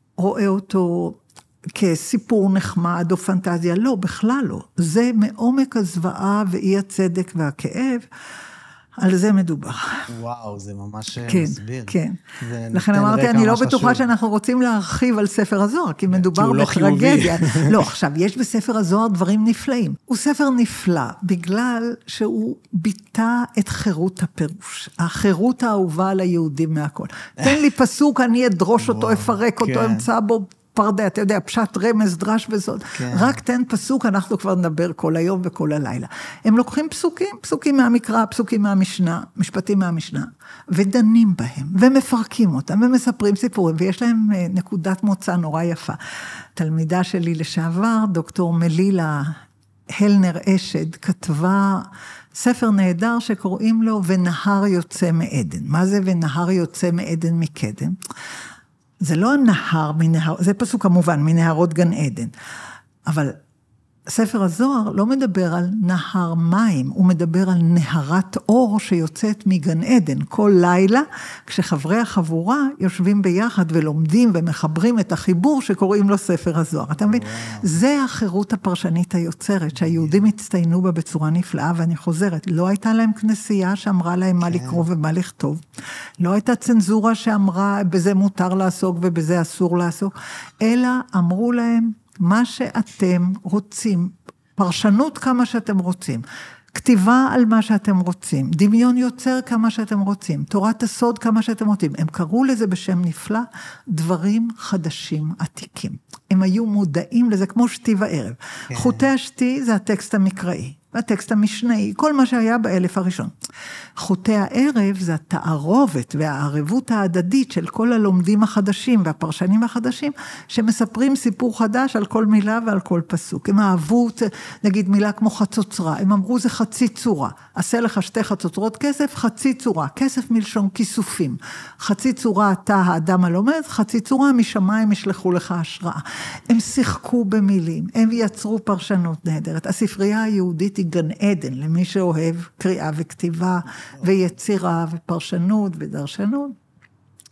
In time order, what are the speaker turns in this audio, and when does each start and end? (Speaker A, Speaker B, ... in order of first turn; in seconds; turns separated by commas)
Speaker A: 0.2-1.2, Speaker A: 1.8-8.1, Speaker A: 9.0-10.1, Speaker B: 10.1-14.1, Speaker A: 11.3-46.0, Speaker B: 16.1-17.9, Speaker B: 27.4-27.6, Speaker B: 28.8-30.1, Speaker B: 33.0-33.4, Speaker A: 46.5-49.4, Speaker A: 49.9-58.0, Speaker A: 59.0-62.3, Speaker A: 63.1-63.4, Speaker A: 64.1-85.6, Speaker B: 77.0-77.8, Speaker B: 79.8-80.2, Speaker B: 84.4-84.8, Speaker A: 86.2-113.3, Speaker B: 108.7-109.1, Speaker A: 114.0-146.6